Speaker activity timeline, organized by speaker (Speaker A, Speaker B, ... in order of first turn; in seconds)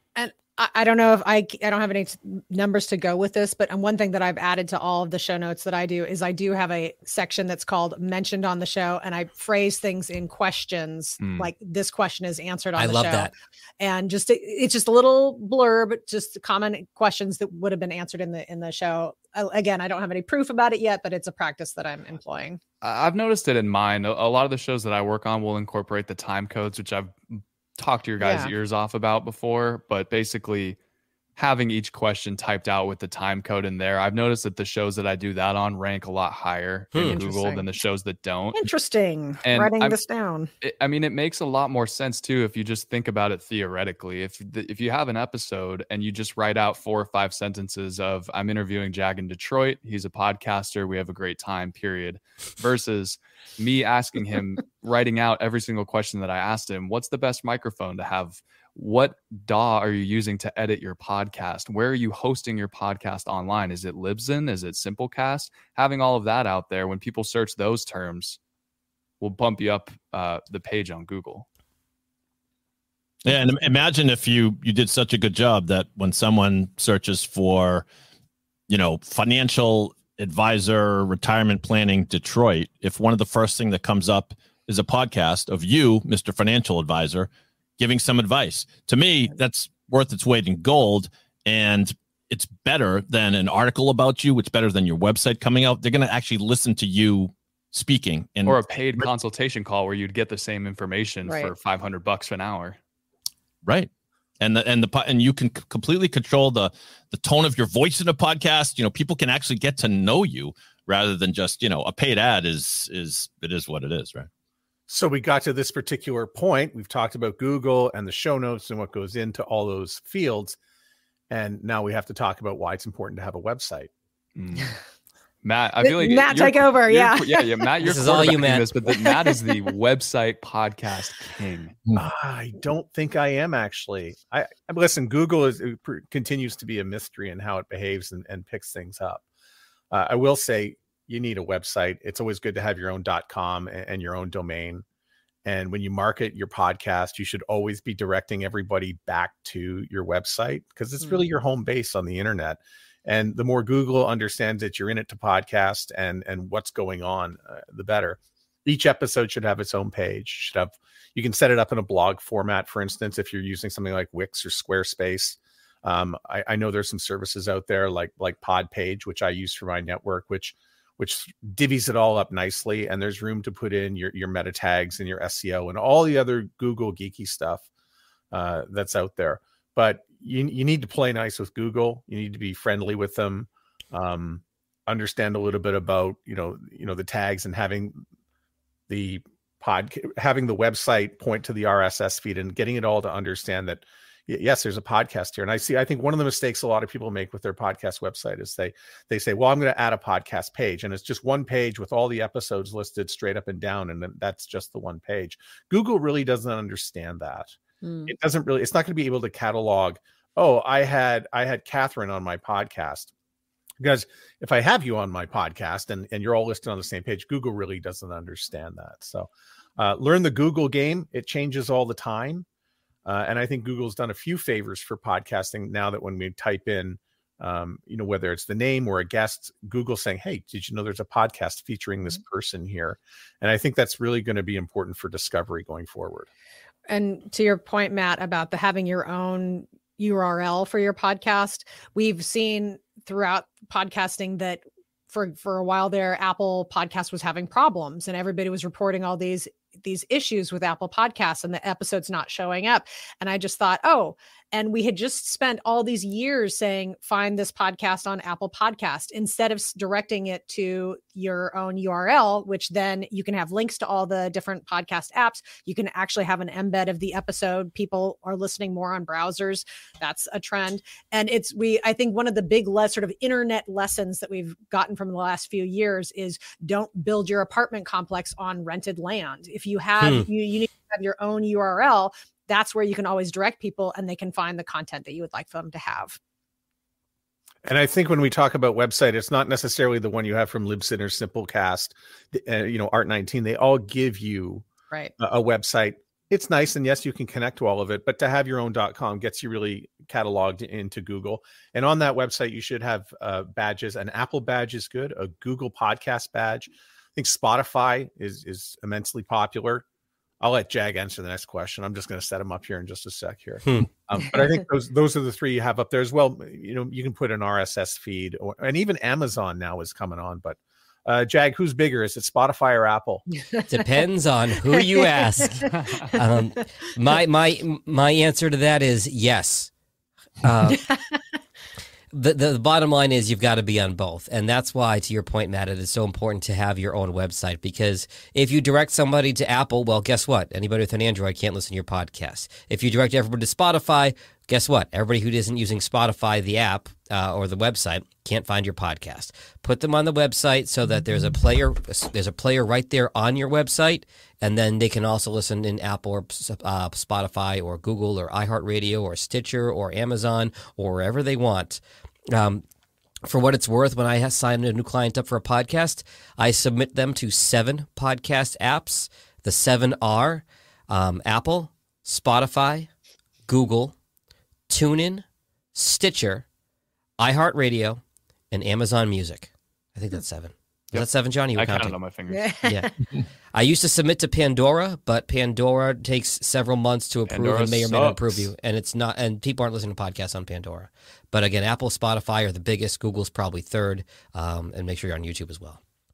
Speaker A: 0.2-22.6, 28.2-28.5, 37.1-37.7, 38.6-40.5, 101.3-101.5, 125.8-127.7, 128.9-129.6, 207.8-208.1, 236.9-286.2, 324.8-325.7, 330.7-331.2, 382.3-382.9
Speaker B: 11.2-11.5, 22.8-30.8, 31.4-38.6, 39.4-40.0, 40.6-68.4, 69.2-71.5, 98.5-102.8, 124.4-124.8, 125.4-131.8, 380.9-382.5, 387.3-388.5
Speaker C: 12.8-13.3, 36.9-37.2, 127.8-128.7, 280.0-280.3, 323.7-329.7, 330.4-330.9, 332.1-362.6, 363.2-372.9, 373.5-373.9, 374.7-376.4, 377.2-382.0, 382.6-382.9, 383.5-395.8
Speaker D: 73.2-77.8, 78.7-99.1, 103.6-103.9, 104.4-114.3
Speaker E: 114.9-120.6, 121.3-123.9, 131.9-139.2, 139.9-144.8, 145.4-177.7, 178.3-188.0, 188.9-213.1, 213.8-222.5, 223.1-236.3, 287.6-294.6, 295.2-309.8, 310.4-323.2